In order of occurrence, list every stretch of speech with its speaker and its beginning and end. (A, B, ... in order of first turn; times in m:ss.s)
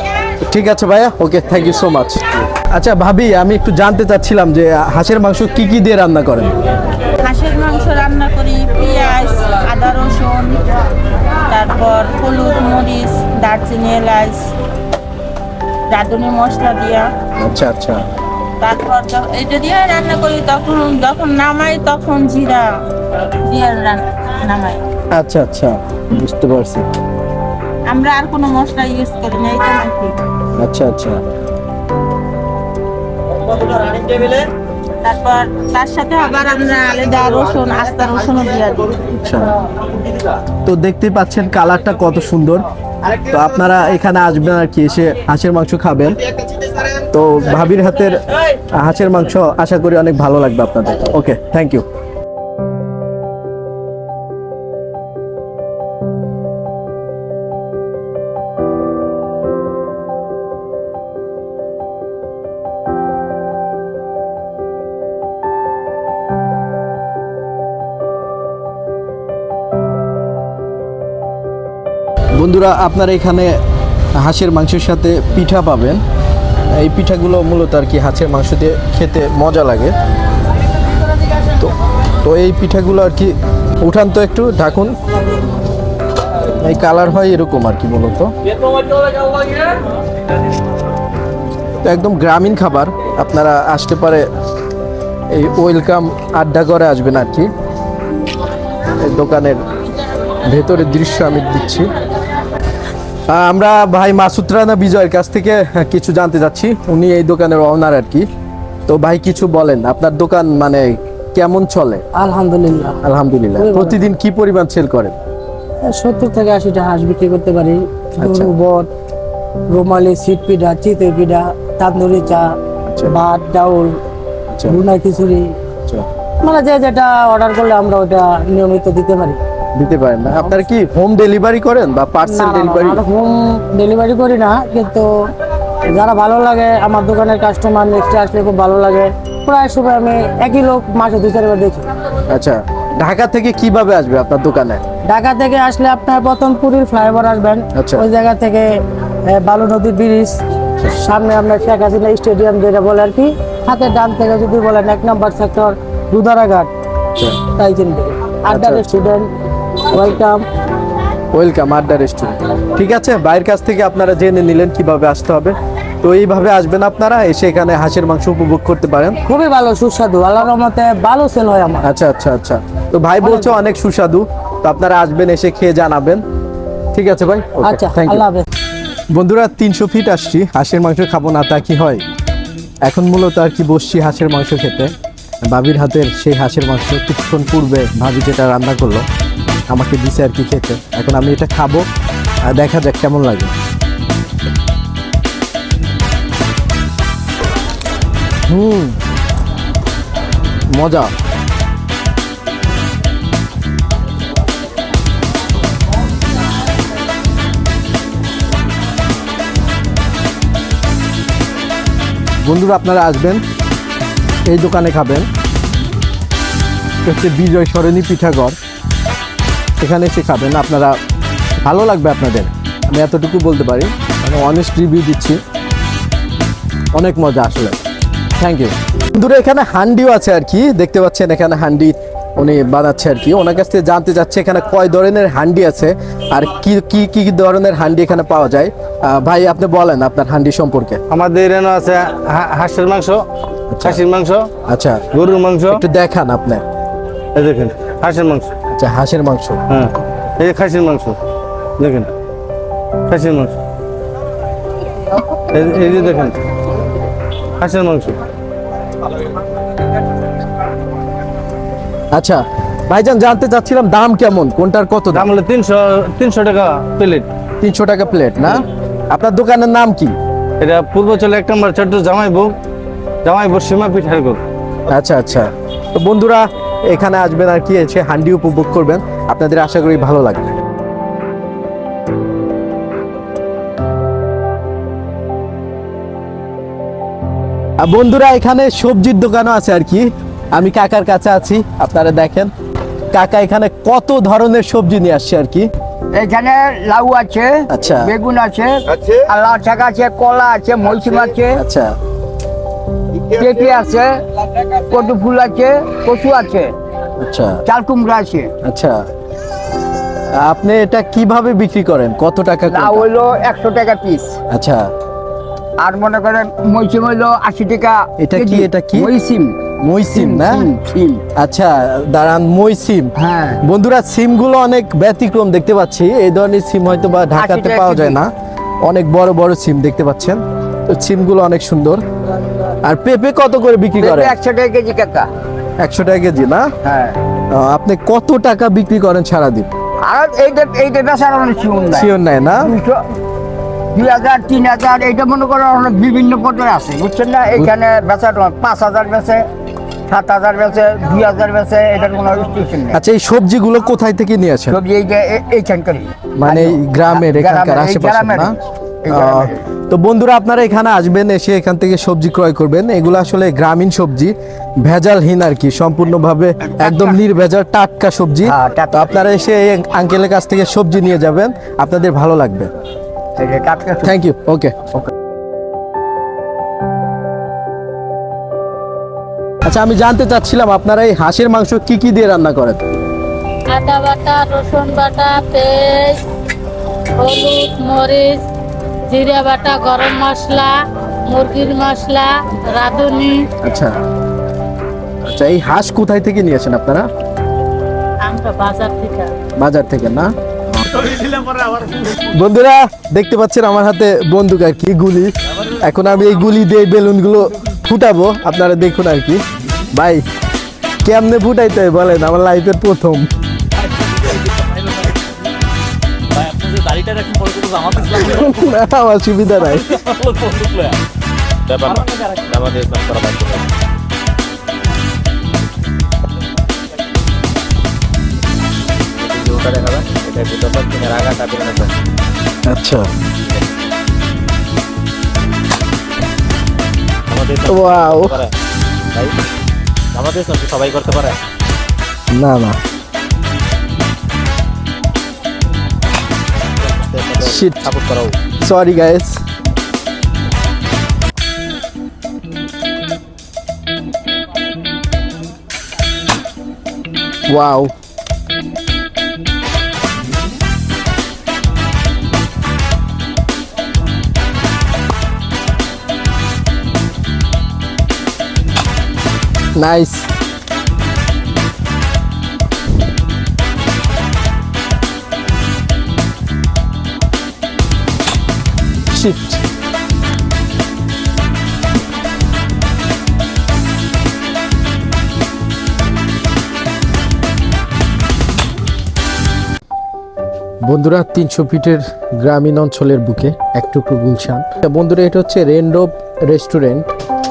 0:00.4-0:06.5 A
0:07.2-0:10.6 B
0:11.5-0:14.5 B
0:15.9-0:17.1 B
0:17.4-0:18.0 A
0:18.6-0:22.8 B
0:23.4-0:24.8 B
0:25.1-0:26.9 A
0:27.9-0:30.2 B
0:30.6-0:31.2 A
0:35.0-0:39.1 B
0:39.2-0:39.5 A
0:40.6-0:42.6 A
0:43.3-0:46.2 A
0:47.1-0:51.8 A
1:12.4-1:13.6 A
1:14.2-1:16.0 A
1:16.8-1:19.9 A
1:22.2-1:24.9 A
1:26.6-1:28.3 A
1:31.8-1:34.3 A
1:35.3-1:37.5 A
1:39.0-1:39.6 A
1:40.4-1:41.9 A
1:43.3-1:48.3 A
1:48.9-1:52.0 A
1:52.1-1:53.0 C
1:53.0-1:55.1 A
1:53.6-1:54.0 C
1:55.8-1:58.9 C
1:58.2-1:58.5 A
1:59.7-2:02.5 C
2:02.9-2:03.1 A
2:03.0-2:04.0 C
2:04.7-2:05.6 C
2:06.4-2:09.4 C
2:09.8-2:13.0 A
2:12.2-2:15.1 C
2:15.9-2:21.8 C
2:22.3-2:24.8 A
2:25.1-2:30.4 C
2:27.7-2:28.0 A
2:30.9-2:36.7 C
2:37.5-2:39.3 C
2:38.5-2:39.0 A
2:39.9-2:40.4 C
2:41.3-2:49.2 A
2:49.2-2:51.8 C
2:51.8-2:56.2 A
2:53.2-2:53.5 C
2:56.9-2:58.2 A
2:57.6-2:58.4 C
2:59.1-3:02.0 A
3:02.8-3:04.9 A
3:05.4-3:09.0 A
3:09.7-3:11.8 A
3:12.5-3:13.5 A
3:18.5-3:19.0 A
3:20.7-3:21.1 A
3:32.4-3:33.4 A
3:34.5-3:35.3 A
3:37.0-3:38.6 A
3:39.8-3:41.0 A
3:41.6-3:45.4 A
3:46.9-3:47.8 A
3:48.4-4:01.0 A
4:01.1-4:03.2 D
4:03.7-4:04.0 A
4:03.8-4:04.5 D
4:04.7-4:05.0 A
4:05.1-4:05.8 D
4:05.7-4:06.6 A
4:07.3-4:08.5 D
4:08.7-4:09.6 A
4:09.7-4:11.2 D
4:11.8-4:12.1 D
4:13.1-4:13.6 D
4:15.5-4:16.4 D
4:17.6-4:18.2 D
4:22.1-4:25.3 A
4:25.1-4:27.2 D
4:27.6-4:30.1 A
4:30.6-4:32.5 D
4:33.2-4:34.4 D
4:34.9-4:40.5 A
4:47.8-4:52.5 A
4:53.1-4:55.7 A
4:56.1-5:01.6 E
4:57.7-4:58.1 A
5:01.6-5:01.9 A
5:03.3-5:04.1 E
5:04.7-5:06.7 E
5:07.2-5:07.6 A
5:07.6-5:08.5 E
5:08.6-5:09.0 A
5:10.4-5:13.0 A
5:12.7-5:14.4 E
5:14.5-5:14.8 A
5:15.8-5:19.6 E
5:18.2-5:19.1 A
5:19.8-5:20.7 A
5:20.1-5:21.2 E
5:21.4-5:23.1 A
5:23.2-5:23.6 E
5:23.6-5:28.3 A
5:27.3-5:28.2 E
5:28.8-5:32.0 A
5:32.8-5:34.3 A
5:34.0-5:35.3 E
5:35.8-5:36.7 A
5:36.8-5:37.2 E
5:37.5-5:39.7 A
5:40.0-5:43.0 E
5:41.9-5:42.7 A
5:43.9-5:49.4 E
5:50.1-5:53.0 E
5:52.9-5:54.8 A
5:54.7-5:59.6 E
5:56.4-5:58.6 A
5:59.1-6:04.3 A
6:04.8-6:12.7 A
6:06.7-6:07.2 E
6:08.4-6:09.3 E
6:13.4-6:14.1 E
6:14.0-6:14.8 A
6:19.6-6:22.8 A
6:23.7-6:26.2 F
6:27.2-6:28.4 F
6:29.1-6:33.5 F
6:33.6-6:34.0 A
6:35.2-6:37.1 A
6:38.2-6:39.3 F
6:39.6-6:41.1 A
6:42.0-6:49.4 A
6:49.9-6:50.2 A
6:51.0-6:53.3 A
6:53.8-6:55.2 G
6:56.3-6:58.7 G
6:58.2-7:00.0 A
6:59.6-7:01.0 G
7:01.7-7:03.7 G
7:09.2-7:11.9 G
7:12.7-7:13.1 A
7:17.3-7:18.5 G
7:17.6-7:18.4 A
7:20.1-7:21.4 G
7:22.3-7:22.8 A
7:26.8-7:28.3 G
7:27.4-7:27.9 A
7:28.6-7:29.4 A
7:37.5-7:37.9 A
7:49.7-7:50.3 A
7:59.1-7:59.6 A
8:10.8-8:17.1 A